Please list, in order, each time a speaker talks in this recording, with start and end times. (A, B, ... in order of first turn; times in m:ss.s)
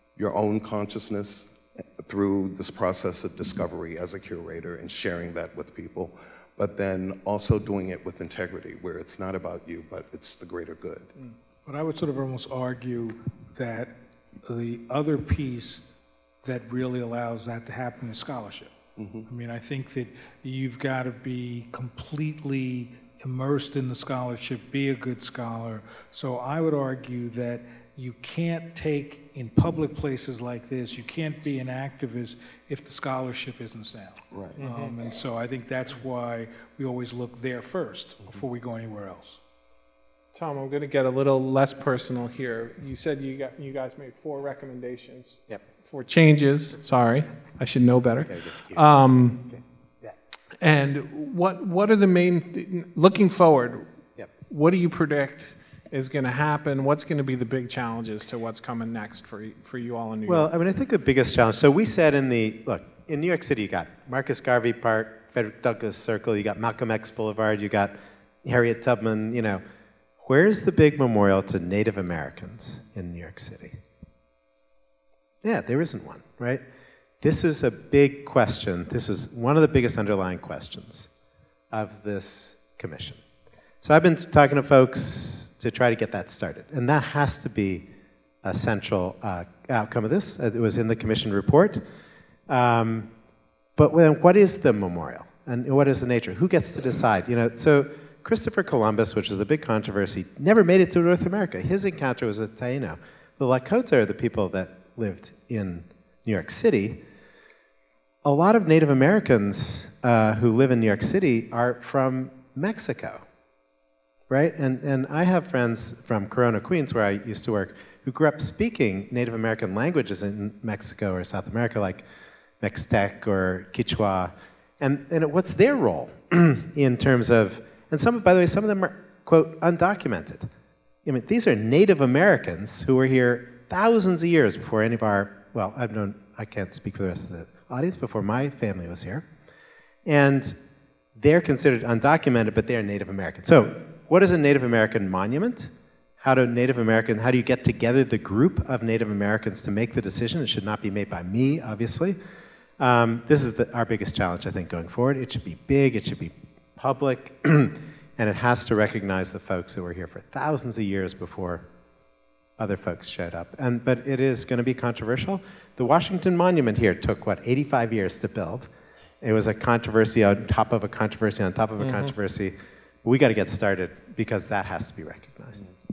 0:00.2-0:11.1 A
0:11.6-0:15.8 B
0:16.4-0:18.7 B
0:19.0-0:19.2 A
0:19.2-0:39.4 B
0:34.3-0:34.6 A
0:34.6-0:34.9 C
0:40.3-0:49.4 C
0:48.2-0:48.9 D
0:49.5-0:50.2 D
0:50.6-0:53.8 C
0:54.5-1:00.5 C
1:00.3-1:09.6 D
1:10.2-1:13.8 D
1:15.4-1:16.6 D
1:17.2-1:21.1 D
1:21.7-1:23.2 D
1:23.8-1:27.8 D
1:28.4-1:31.8 D
1:32.5-1:33.1 D
1:33.8-1:47.0 D
1:48.2-1:53.2 D
1:54.3-2:02.0 D
2:02.6-2:10.5 D
2:11.0-2:19.3 D
2:20.0-2:20.6 D
2:21.2-2:32.2 D
2:32.8-2:41.6 D
2:42.6-2:48.7 D
2:49.2-2:55.7 D
2:51.8-2:52.1 C